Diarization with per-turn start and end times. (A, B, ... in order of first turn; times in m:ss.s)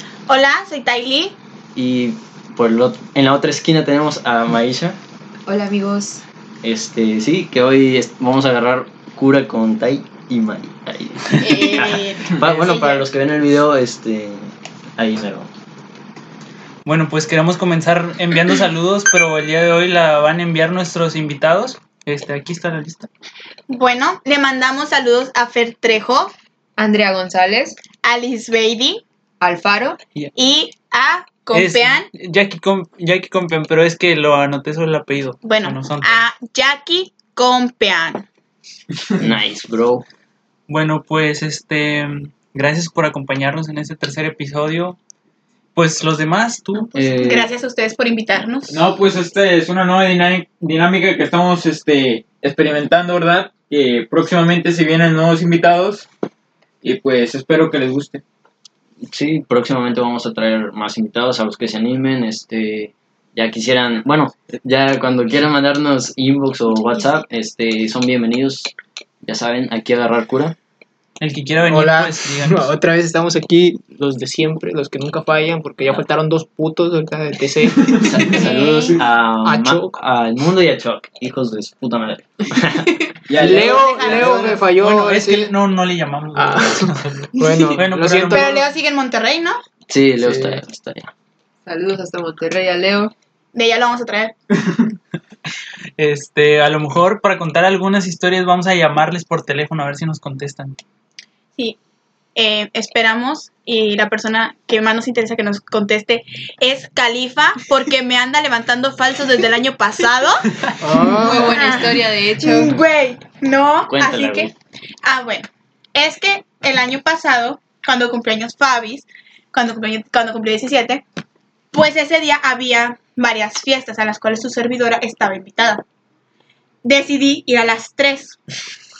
0:00.3-0:01.4 A
0:01.8-0:05.0 B
0:05.5-0:06.2 C
0:06.6-0:15.5 B
0:11.4-0:13.1 A
0:16.8-0:23.1 D
0:23.7-0:26.3 A
0:26.8-0:27.8 C
0:28.0-0:29.0 A
0:29.4-0:30.0 C
0:30.4-0:32.1 A
0:31.5-0:36.2 D
0:35.4-0:38.2 A
0:39.2-0:40.0 B
0:40.7-0:45.0 D
0:45.7-0:47.0 D
0:46.9-0:47.5 B
0:47.1-0:48.8 A
0:48.7-0:56.1 E
0:56.8-0:58.2 E
0:59.0-1:08.7 B
1:09.2-1:10.6 B
1:11.2-1:12.7 D
1:11.6-1:18.2 F
1:18.0-1:23.0 B
1:18.2-1:19.0 A
1:19.4-1:20.0 F
1:23.3-1:24.6 E
1:23.4-1:25.5 F
1:23.5-1:24.6 A
1:24.7-1:28.5 D
1:26.3-1:28.6 F
1:28.3-1:29.6 A
1:29.9-1:31.1 B
1:30.2-1:30.6 F
1:31.6-1:33.1 C
1:33.5-1:34.3 A
1:36.0-1:40.8 D
1:42.3-1:54.5 A
1:50.8-1:51.6 F
1:51.1-1:52.8 C
1:53.9-1:54.5 B
1:55.0-2:01.0 A
2:01.7-2:05.8 A
2:06.8-2:08.4 A